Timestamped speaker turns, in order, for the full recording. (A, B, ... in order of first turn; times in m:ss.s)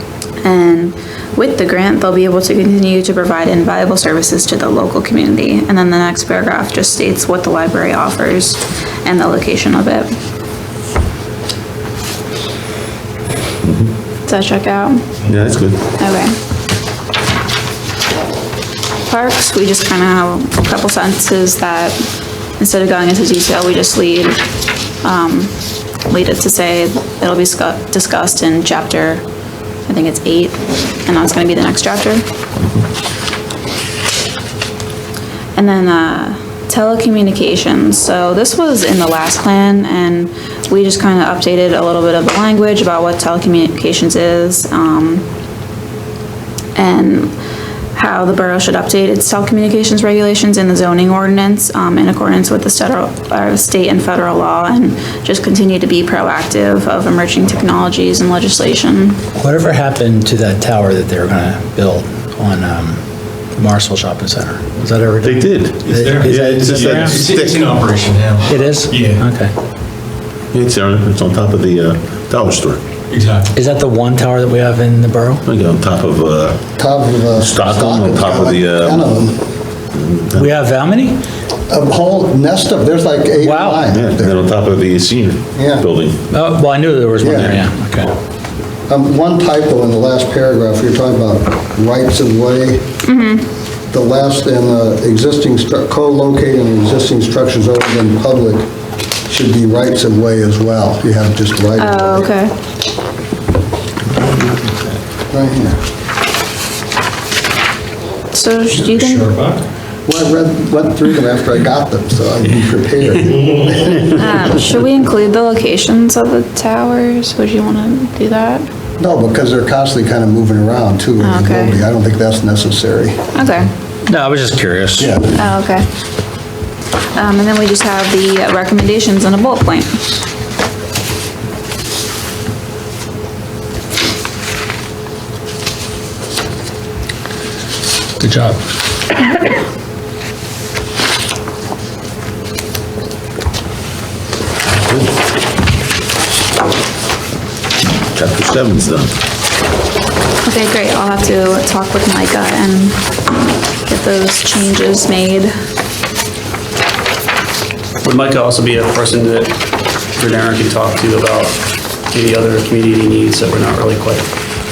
0:00.4-0:10.1 A
0:13.6-0:13.9 B
0:14.2-0:15.0 A
0:15.3-0:15.8 B
0:16.0-0:16.3 A
0:19.0-0:22.0 A
0:22.6-0:24.4 A
0:25.0-0:25.5 A
0:26.1-0:29.2 A
0:29.9-0:32.2 A
0:35.6-0:45.2 A
0:46.8-0:47.3 A
0:47.9-0:59.2 A
0:59.3-1:03.0 C
1:03.6-1:07.2 C
1:05.2-1:07.6 B
1:05.8-1:09.2 D
1:08.5-1:09.5 C
1:10.5-1:12.8 B
1:13.1-1:13.5 D
1:13.5-1:15.4 C
1:15.4-1:16.8 B
1:16.8-1:19.4 E
1:17.3-1:19.0 B
1:19.9-1:20.5 B
1:20.3-1:21.2 C
1:21.7-1:24.4 E
1:23.4-1:23.9 C
1:23.9-1:26.2 B
1:25.5-1:25.9 E
1:26.3-1:28.1 C
1:27.2-1:27.5 E
1:28.9-1:32.8 E
1:33.0-1:33.5 A
1:33.9-1:38.6 E
1:39.3-1:42.3 E
1:41.8-1:42.6 A
1:44.1-1:44.9 B
1:45.3-1:45.8 E
1:48.3-1:49.4 A
1:48.8-1:49.6 D
1:50.1-1:54.4 E
1:53.5-1:53.9 D
1:54.1-1:58.6 A
1:59.0-2:03.3 E
2:01.2-2:01.8 A
2:03.3-2:03.7 A
2:04.0-2:05.2 C
2:05.0-2:05.3 E
2:05.3-2:05.8 A
2:07.1-2:10.0 A
2:18.2-2:18.6 C
2:24.6-2:25.2 B
2:28.1-2:29.1 B
2:30.4-2:33.0 A
2:33.8-2:35.5 A
2:38.0-2:39.6 F
2:40.1-2:44.3 F